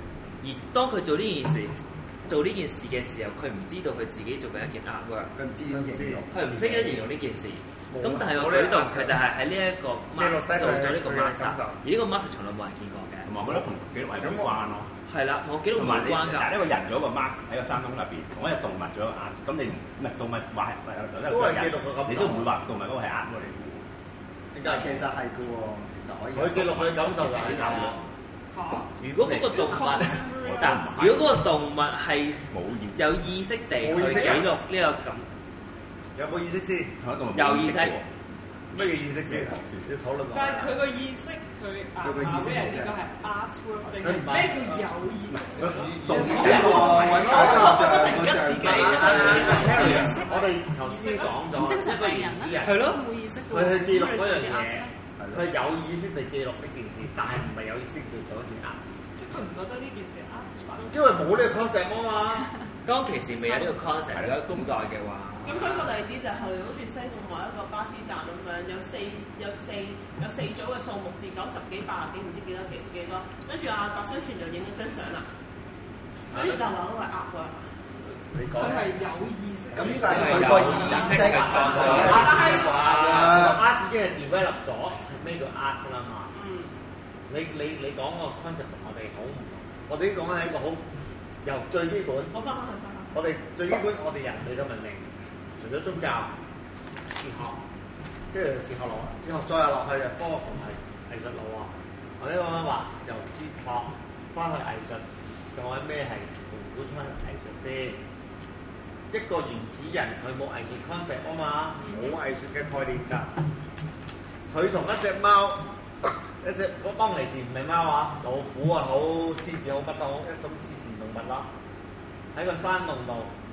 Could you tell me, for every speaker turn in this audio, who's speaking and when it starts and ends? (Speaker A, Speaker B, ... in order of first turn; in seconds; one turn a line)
Speaker A: 0.4-5.3
Speaker B: 5.4-7.1
Speaker C: 5.7-6.3
Speaker A: 6.3-13.3
Speaker C: 7.9-9.2
Speaker C: 10.2-11.8
Speaker D: 13.2-14.9
Speaker C: 14.2-14.6
Speaker A: 15.1-16.7
Speaker D: 15.7-23.9
Speaker C: 21.3-22.5
Speaker C: 24.5-25.0
Speaker B: 24.6-27.9
Speaker C: 26.4-28.0
Speaker D: 27.4-27.9
Speaker E: 28.5-30.8
Speaker A: 29.0-32.4
Speaker D: 30.3-31.5
Speaker D: 32.5-33.2
Speaker A: 33.0-35.3
Speaker C: 33.8-34.5
Speaker C: 36.2-36.9
Speaker D: 37.0-38.1
Speaker A: 37.3-38.0
Speaker C: 38.7-40.8
Speaker D: 38.8-39.9
Speaker E: 40.3-51.5
Speaker B: 42.0-43.0
Speaker C: 44.0-44.9
Speaker B: 45.8-50.1
Speaker C: 46.1-52.8
Speaker D: 46.2-46.7
Speaker F: 50.0-50.3
Speaker F: 51.6-54.9
Speaker A: 52.6-53.0
Speaker C: 53.5-58.8
Speaker B: 55.2-55.5
Speaker E: 59.2-61.3
Speaker C: 60.9-62.5
Speaker A: 62.9-65.9
Speaker D: 64.1-64.7
Speaker G: 65.4-75.3
Speaker G: 76.3-77.7
Speaker C: 78.3-79.0
Speaker E: 78.5-82.1
Speaker B: 79.7-83.6
Speaker A: 80.0-83.5
Speaker C: 80.6-86.3
Speaker G: 82.0-82.8
Speaker G: 86.3-86.7
Speaker C: 87.3-90.9
Speaker C: 91.4-92.3
Speaker G: 92.3-93.1
Speaker C: 93.1-96.3
Speaker C: 97.2-97.6
Speaker C: 98.3-108.0
Speaker C: 109.1-113.3
Speaker C: 114.5-121.5
Speaker C: 122.3-123.3